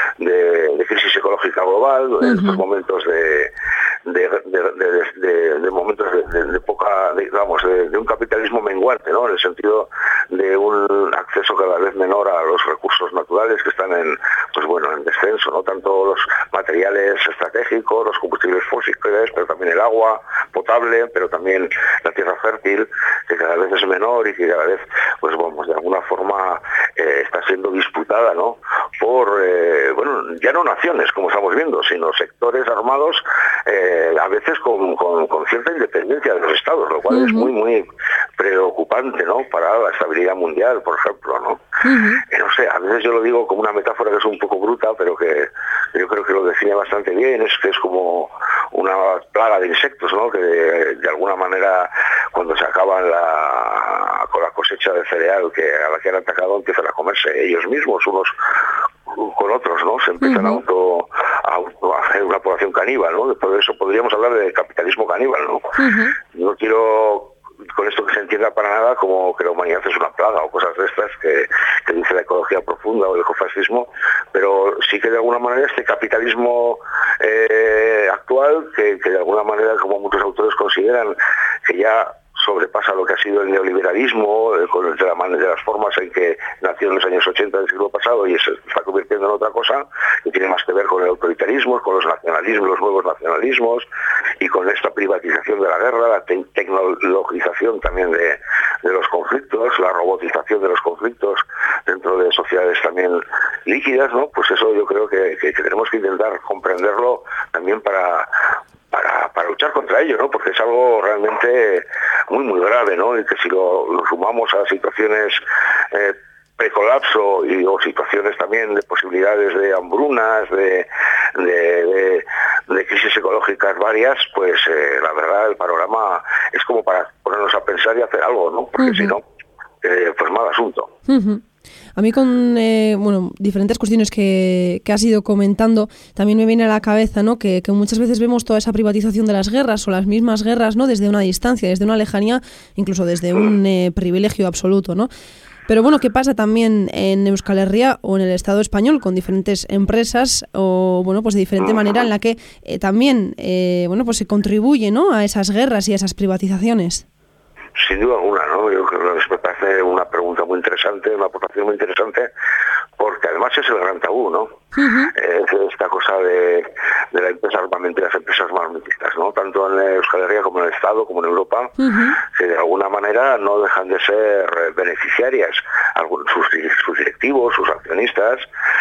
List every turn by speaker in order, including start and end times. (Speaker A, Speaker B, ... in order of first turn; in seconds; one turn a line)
Speaker A: 0.2-3.5
Speaker B: 2.2-2.6
Speaker A: 4.0-37.8
Speaker B: 37.1-37.5
Speaker A: 38.4-41.6
Speaker B: 41.8-42.2
Speaker A: 42.3-58.3
Speaker A: 59.1-65.7
Speaker B: 60.2-60.6
Speaker B: 65.8-66.2
Speaker A: 66.3-93.9
Speaker A: 94.4-108.3
Speaker A: 108.9-129.2
Speaker B: 128.8-129.1
Speaker A: 129.8-130.9
Speaker B: 131.1-131.4
Speaker B: 131.9-145.1
Speaker B: 145.7-157.0
Speaker A: 151.6-151.9
Speaker A: 157.8-162.3
Speaker A: 163.0-164.6
Speaker B: 164.7-165.1
Speaker A: 165.1-178.4
Speaker B: 171.8-172.2